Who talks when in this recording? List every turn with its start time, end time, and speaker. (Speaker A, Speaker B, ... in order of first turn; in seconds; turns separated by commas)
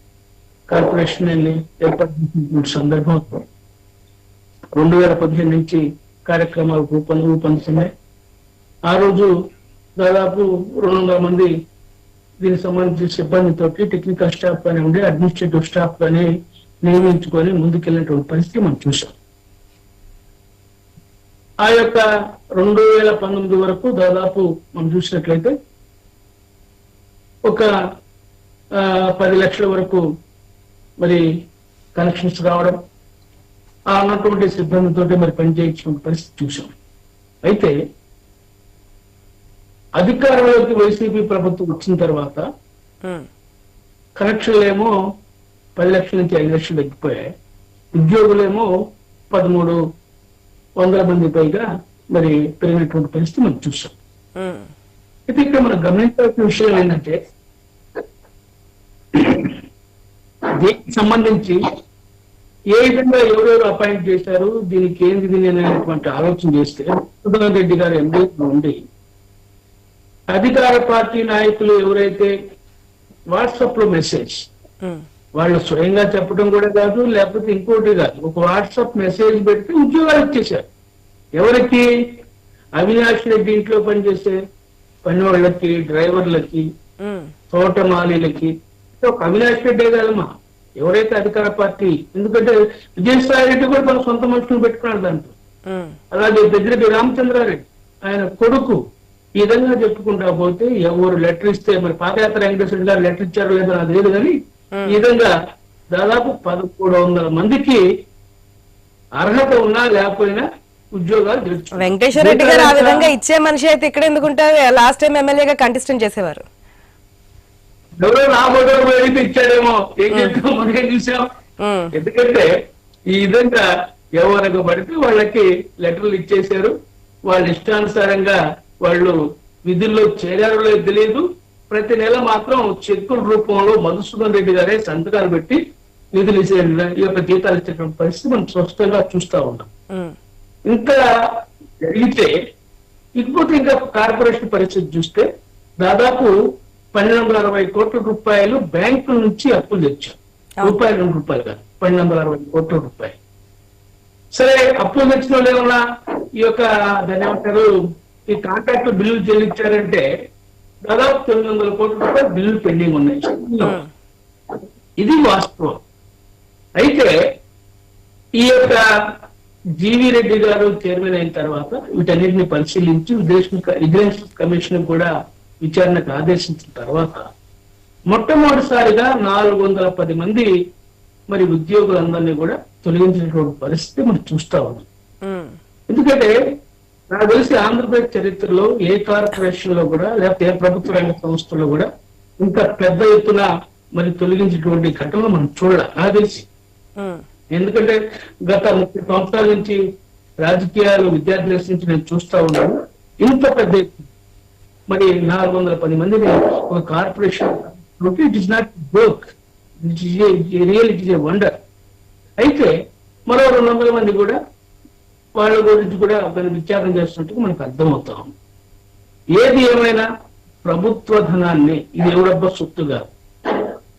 Speaker A: 0.7-3.4, Speaker A: 4.8-7.9, Speaker A: 8.9-9.3, Speaker A: 10.0-11.5, Speaker A: 12.4-16.3, Speaker A: 16.8-19.1, Speaker A: 21.6-22.0, Speaker A: 22.6-25.5, Speaker A: 28.8-30.0, Speaker A: 31.9-32.8, Speaker A: 33.9-36.7, Speaker A: 37.5-37.8, Speaker A: 40.0-42.4, Speaker A: 44.2-44.9, Speaker A: 45.8-47.3, Speaker A: 48.0-48.7, Speaker A: 49.3-49.8, Speaker A: 50.8-54.0, Speaker B: 54.4-54.7, Speaker A: 55.3-57.2, Speaker A: 59.1-59.6, Speaker A: 60.6-61.6, Speaker A: 62.8-68.8, Speaker A: 70.3-72.3, Speaker A: 73.3-74.5, Speaker A: 75.4-80.7, Speaker A: 81.4-81.8, Speaker A: 82.8-84.4, Speaker A: 85.0-86.7, Speaker B: 87.0-87.3, Speaker A: 87.5-90.3, Speaker A: 90.8-95.3, Speaker B: 95.7-96.0, Speaker A: 96.1-98.8, Speaker A: 99.4-104.4, Speaker A: 104.9-105.3, Speaker A: 105.9-107.8, Speaker A: 109.2-110.5, Speaker A: 111.0-113.1, Speaker B: 111.8-116.4, Speaker A: 118.0-121.2, Speaker B: 120.1-120.4, Speaker B: 121.6-121.9, Speaker A: 122.0-122.5, Speaker A: 123.1-123.6, Speaker A: 124.2-126.7, Speaker A: 127.3-135.6, Speaker A: 136.2-139.7, Speaker A: 140.7-141.0, Speaker A: 141.8-142.3, Speaker A: 143.2-145.3, Speaker A: 145.8-146.3, Speaker A: 146.9-153.2, Speaker A: 154.4-155.8, Speaker A: 156.4-157.7, Speaker A: 158.3-160.1, Speaker A: 160.9-163.8, Speaker B: 163.6-163.9, Speaker A: 165.0-165.8, Speaker A: 166.8-167.2, Speaker A: 168.4-168.8, Speaker A: 169.8-175.1, Speaker A: 175.6-177.2, Speaker A: 178.1-180.5, Speaker A: 181.3-184.8, Speaker B: 185.2-185.5, Speaker A: 185.9-186.3, Speaker A: 187.1-191.9, Speaker A: 192.4-196.5, Speaker A: 197.5-199.8, Speaker A: 200.4-204.0, Speaker A: 204.9-209.3, Speaker A: 209.8-211.5, Speaker A: 212.4-212.7, Speaker A: 213.3-214.4, Speaker A: 215.4-218.3, Speaker A: 219.3-220.1, Speaker A: 220.6-223.1